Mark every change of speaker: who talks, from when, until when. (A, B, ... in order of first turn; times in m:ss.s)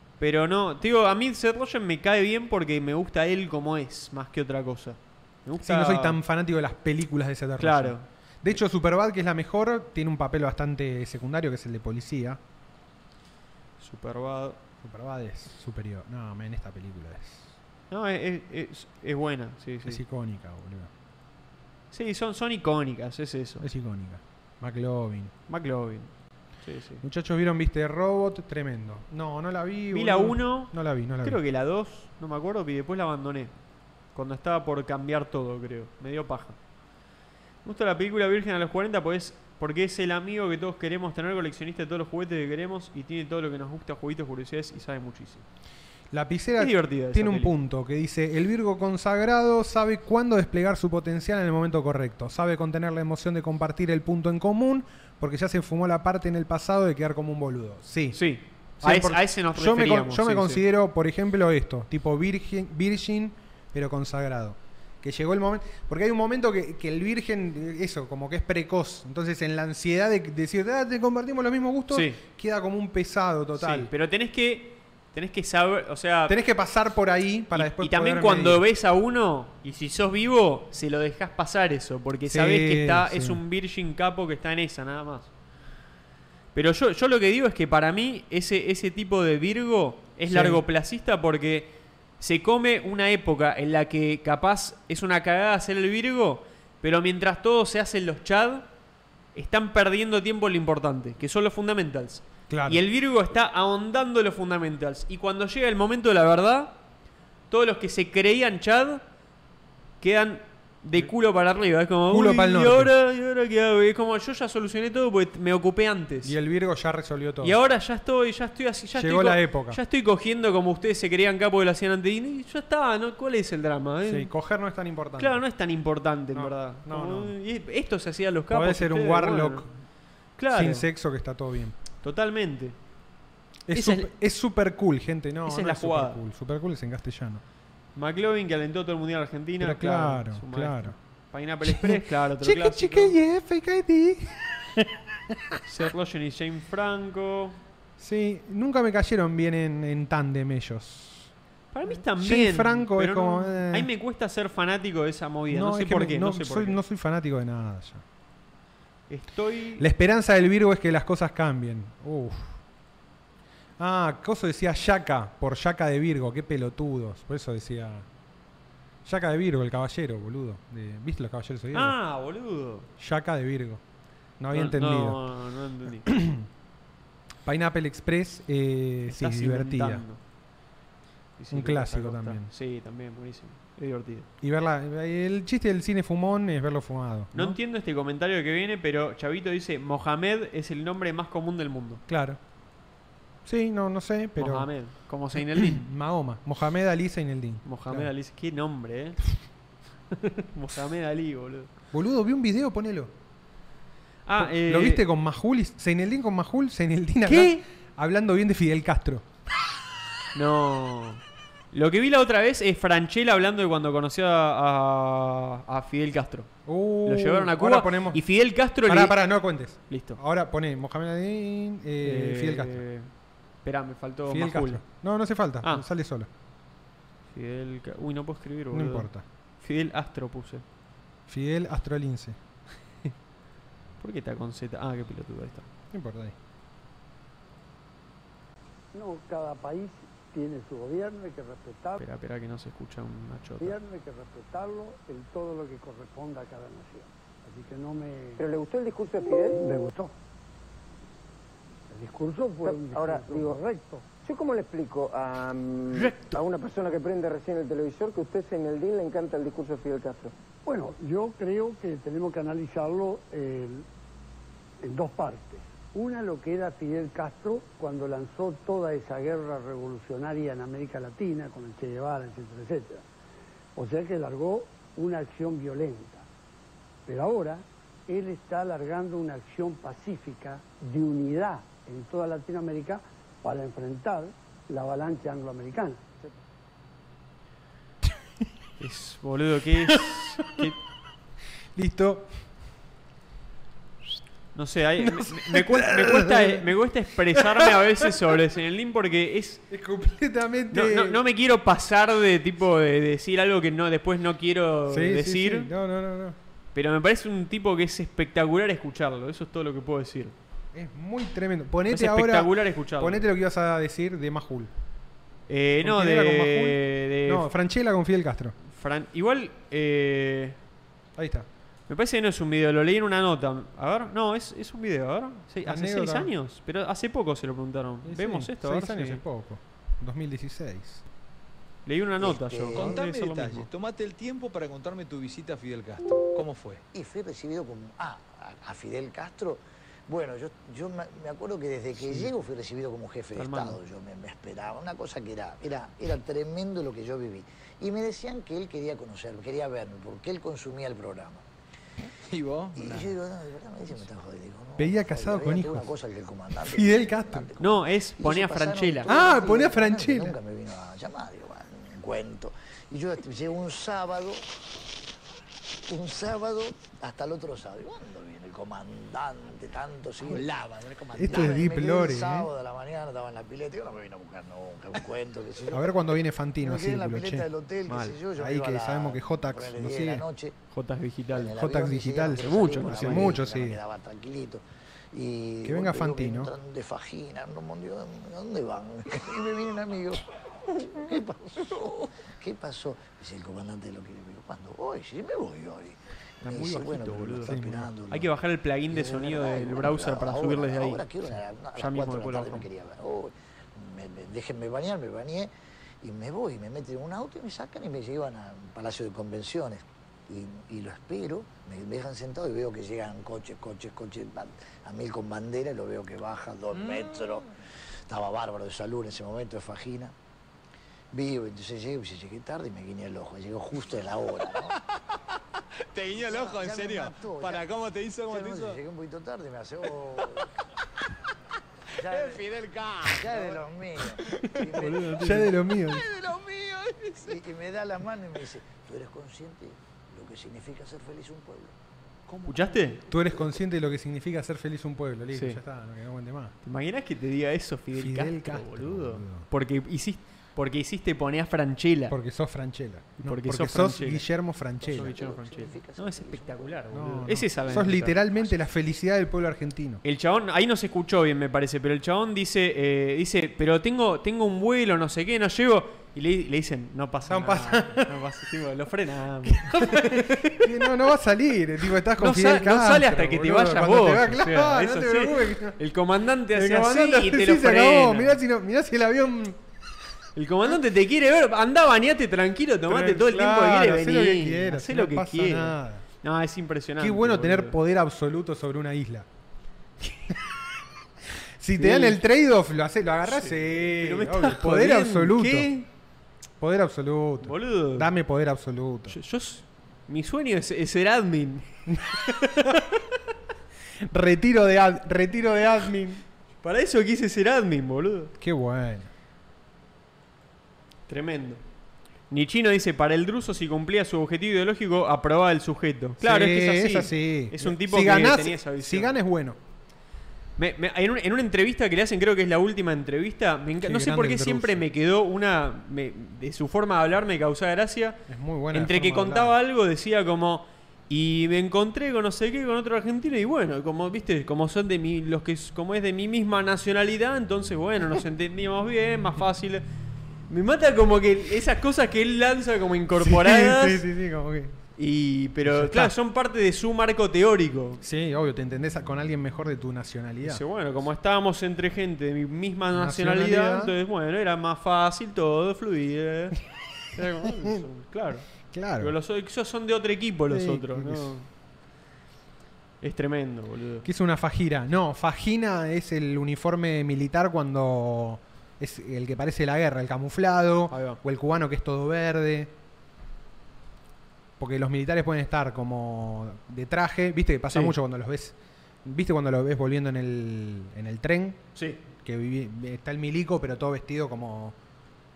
0:00.2-0:06.2 A
0:05.6-0:12.4 B
0:07.6-0:08.1 A
0:13.8-0:14.6 A
0:14.8-0:17.5 B
0:17.9-0:20.0 A
0:19.9-0:20.9 B
0:21.9-0:23.7 A
0:23.6-0:25.3 B
0:25.5-0:26.1 A
0:26.6-0:27.0 A
0:27.0-0:31.4 B
0:29.9-0:33.5 A
0:34.1-0:36.6 A
0:37.6-0:45.4 A
0:46.1-0:58.2 B
0:46.6-0:47.6 A
0:58.1-1:00.6 A
0:58.8-1:13.9 B
1:11.9-1:12.2 A
1:13.6-1:16.4 A
1:16.3-1:18.6 B
1:17.5-1:25.3 A
1:22.3-1:23.4 B
1:26.5-1:38.7 A
1:30.3-1:30.6 B
1:39.4-1:46.8 A
1:42.5-1:42.8 B
1:47.5-1:49.0 A
1:50.0-1:56.4 A
1:52.1-1:52.9 B
1:56.2-1:57.6 B
1:57.4-2:04.3 A
1:58.9-1:59.8 B
2:04.0-2:05.4 B
2:05.2-2:09.6 A
2:06.3-2:07.4 B
2:08.5-2:09.7 B
2:10.4-2:10.9 A
2:10.5-2:11.8 B
2:12.0-2:12.8 A
2:13.7-2:17.4 B
2:13.7-2:14.1 A
2:15.5-2:16.2 A
2:18.0-2:23.2 A
2:19.6-2:21.0 B
2:21.6-2:25.6 B
2:25.7-2:27.6 A
2:28.0-2:31.3 B
2:31.7-2:36.8 A
2:32.1-2:33.9 B
2:35.5-2:38.0 B
2:39.1-2:39.8 A
2:39.8-2:42.6 B
2:43.8-2:48.1 B
2:49.0-2:52.0 B
2:51.7-2:52.9 A
2:53.0-2:53.8 B
2:54.4-2:55.2 B
2:54.5-2:56.1 A
2:56.0-2:56.5 B
2:57.5-3:00.0 B
2:59.1-3:00.2 A
3:01.4-3:04.3 A
3:01.5-3:02.5 B
3:04.4-3:07.6 B
3:07.3-3:12.0 A
3:12.1-3:12.4 B
3:13.5-3:14.7 B
3:14.4-3:15.8 A
3:15.4-3:18.1 B
3:17.6-3:19.2 A
3:20.1-3:21.7 A
3:21.9-3:23.1 B
3:24.3-3:25.0 A
3:24.4-3:29.2 B
3:27.3-3:27.6 A
3:30.3-3:36.5 A
3:36.7-3:38.2 B
3:37.0-3:39.2 A
3:38.8-3:42.8 B
3:39.9-3:40.2 A
3:42.0-3:43.1 A
3:43.6-3:44.8 A
3:44.3-3:46.3 B
3:47.3-3:49.1 A
3:48.7-3:49.2 B
3:49.6-3:50.6 A
3:51.3-3:52.4 B
3:54.0-3:55.7 A
3:55.9-3:56.4 B
3:58.9-4:02.0 C
4:02.0-4:03.8 A
4:03.6-4:08.4 C
4:08.4-4:09.6 D
4:09.6-4:10.2 C
4:11.9-4:14.0 C
4:12.6-4:13.6 D
4:14.2-4:20.3 D
4:20.6-4:23.9 C
4:24.8-4:33.0 C
4:33.8-4:36.3 C
4:37.1-4:46.1 C
4:48.8-4:50.8 A
4:49.9-4:50.6 B
4:51.8-4:52.4 B
4:54.6-4:59.6 A
4:55.0-4:56.7 B
4:57.3-4:58.1 B
4:59.7-5:01.2 B
5:00.7-5:05.7 A
5:04.9-5:06.4 B
5:06.8-5:10.4 A
5:10.7-5:14.7 B
5:11.9-5:13.2 A
5:15.5-5:17.5 A
5:15.8-5:18.6 B
5:18.6-5:20.6 A
5:21.2-5:21.5 B
5:21.9-5:29.2 A
5:25.6-5:26.3 B
5:28.0-5:31.0 B
5:31.9-5:33.7 A
5:32.2-5:32.9 E
5:32.7-5:36.8 F
5:36.9-5:51.4 E
5:42.0-5:42.3 A
5:43.4-5:43.8 A
5:52.3-5:53.2 F
5:52.8-6:04.4 E
5:54.8-5:55.9 B
5:56.6-5:57.5 B
5:57.6-5:59.1 A
5:59.1-6:00.4 B
6:05.9-6:16.0 E
6:11.2-6:12.5 B
6:15.7-6:17.5 B
6:16.6-6:20.6 E
6:17.9-6:18.2 A
6:18.4-6:20.2 B
6:20.7-6:21.6 A
6:21.3-6:38.3 E
6:21.5-6:23.8 B
6:22.4-6:23.4 A
6:25.6-6:26.5 B
6:36.4-6:41.0 A
6:37.4-6:37.9 B
6:38.9-6:45.5 E
6:41.8-6:42.7 A
6:46.0-6:57.5 E
6:58.1-7:00.1 E
7:01.1-7:04.7 E
7:05.9-7:08.8 F
7:06.2-7:07.7 E
7:08.3-7:10.4 E
7:12.0-7:12.4 E
7:12.0-7:14.5 F
7:13.1-7:15.3 E
7:14.6-7:15.5 A
7:15.2-7:16.0 B
7:15.8-7:17.4 F
7:17.2-7:21.8 E
7:22.3-7:22.8 F
7:22.5-7:23.0 A
7:23.1-7:26.5 B
7:25.3-7:25.6 A
7:26.6-7:32.2 A
7:27.9-7:29.5 B
7:32.1-7:35.2 B
7:33.2-7:34.2 A
7:34.8-7:37.0 E
7:34.9-7:38.2 A
7:36.9-7:40.0 B
7:37.6-7:38.5 E
7:40.0-7:50.7 A
7:47.3-7:48.1 B
7:49.5-7:55.8 B
7:52.2-7:58.4 A
7:56.5-7:59.6 B
8:00.4-8:07.8 A
8:02.9-8:06.0 B
8:07.0-8:09.3 B
8:10.0-8:10.3 A
8:11.6-8:15.7 B
8:11.8-8:12.2 A
8:13.3-8:15.9 A
8:16.6-8:19.2 B
8:17.4-8:18.1 A
8:19.1-8:21.7 A
8:21.9-8:22.8 B
8:22.4-8:22.8 A
8:24.1-8:26.2 B
8:26.6-8:28.3 A
8:28.4-8:29.1 B
8:31.1-8:31.6 A
8:32.3-8:39.2 A
8:36.2-8:39.6 B
8:40.6-8:48.2 A
8:43.8-8:44.8 B
8:48.3-8:49.6 B
8:48.7-8:59.8 A
9:00.5-9:04.0 A
9:03.2-9:04.8 B
9:05.0-9:08.0 A
9:05.6-9:06.2 B
9:08.0-9:10.6 B
9:10.4-9:16.6 A
9:12.9-9:13.9 B
9:17.2-9:18.4 A
9:17.4-9:17.8 B
9:18.7-9:19.2 B
9:19.0-9:21.5 A
9:20.5-9:21.3 B
9:23.0-9:24.1 A
9:24.0-9:32.7 B
9:30.9-9:31.2 A
9:34.6-9:41.6 B
9:42.2-9:44.8 B